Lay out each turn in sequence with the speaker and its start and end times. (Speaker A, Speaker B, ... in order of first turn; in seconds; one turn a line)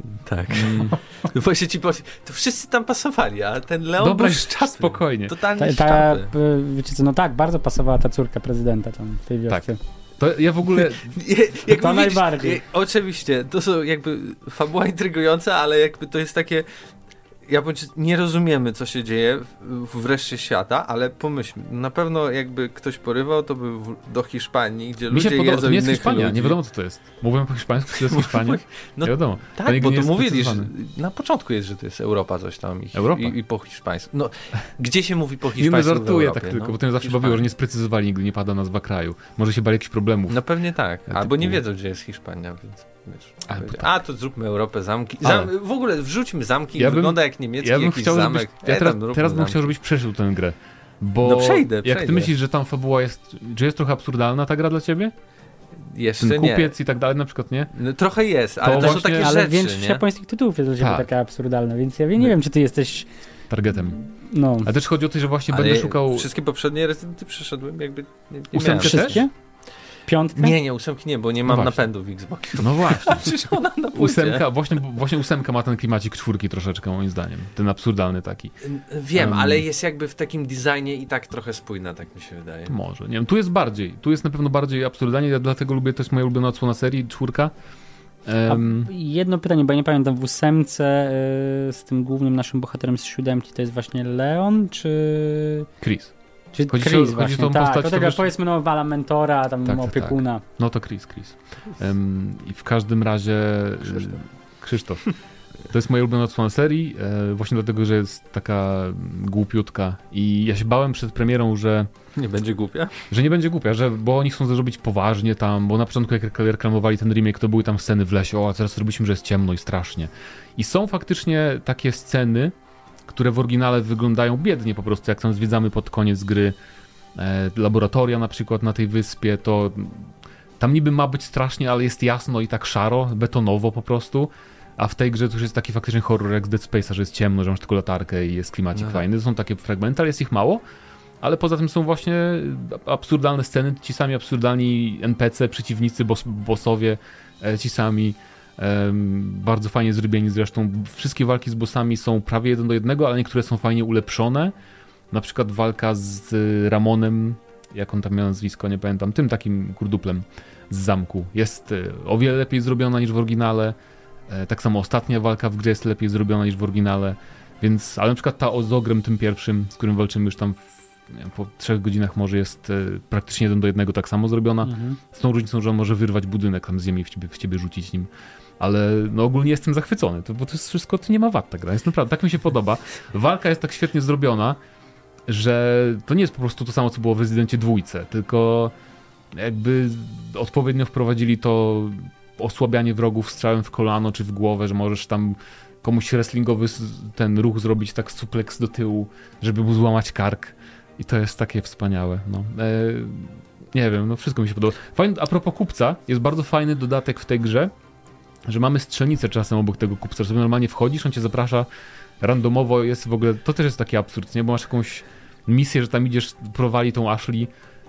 Speaker A: 0.2-6.3
Speaker B: 0.5-1.0
Speaker B: 4.0-5.3
Speaker C: 5.6-9.8
Speaker B: 9.5-11.2
Speaker A: 10.8-16.7
Speaker C: 11.7-12.6
Speaker A: 17.5-26.6
Speaker B: 25.1-30.7
Speaker A: 27.9-37.5
Speaker B: 32.9-33.4
Speaker B: 35.6-40.4
Speaker A: 40.3-49.7
Speaker B: 41.1-41.6
Speaker B: 43.5-43.9
Speaker B: 45.2-45.5
Speaker B: 46.8-55.1
Speaker A: 51.2-52.3
Speaker A: 55.9-56.7
Speaker B: 56.2-57.7
Speaker A: 57.7-60.0
Speaker B: 58.6-59.3
Speaker C: 58.6-63.1
Speaker B: 60.8-61.1
Speaker B: 63.5-64.0
Speaker C: 64.0-64.7
Speaker B: 64.6-66.3
Speaker A: 65.5-69.2
Speaker B: 68.5-69.2
Speaker C: 68.8-69.3
Speaker C: 70.0-70.5
Speaker A: 70.3-74.4
Speaker B: 71.5-71.8
Speaker B: 72.6-78.5
Speaker A: 78.6-82.7
Speaker B: 79.1-79.6
Speaker B: 82.7-87.5
Speaker B: 88.2-88.9
Speaker C: 88.5-95.7
Speaker B: 95.8-96.1
Speaker C: 96.5-100.4
Speaker B: 96.7-98.3
Speaker B: 99.7-105.1
Speaker B: 105.7-111.9
Speaker A: 112.2-113.0
Speaker B: 113.1-122.5
Speaker B: 123.1-126.5
Speaker B: 127.1-140.6
Speaker A: 138.8-139.0
Speaker B: 141.2-154.5
Speaker B: 155.1-163.8
Speaker B: 164.3-178.1
Speaker C: 174.6-175.0
Speaker B: 178.6-184.6
Speaker B: 185.3-188.7
Speaker B: 189.3-207.7
Speaker B: 208.4-211.7
Speaker B: 212.2-217.5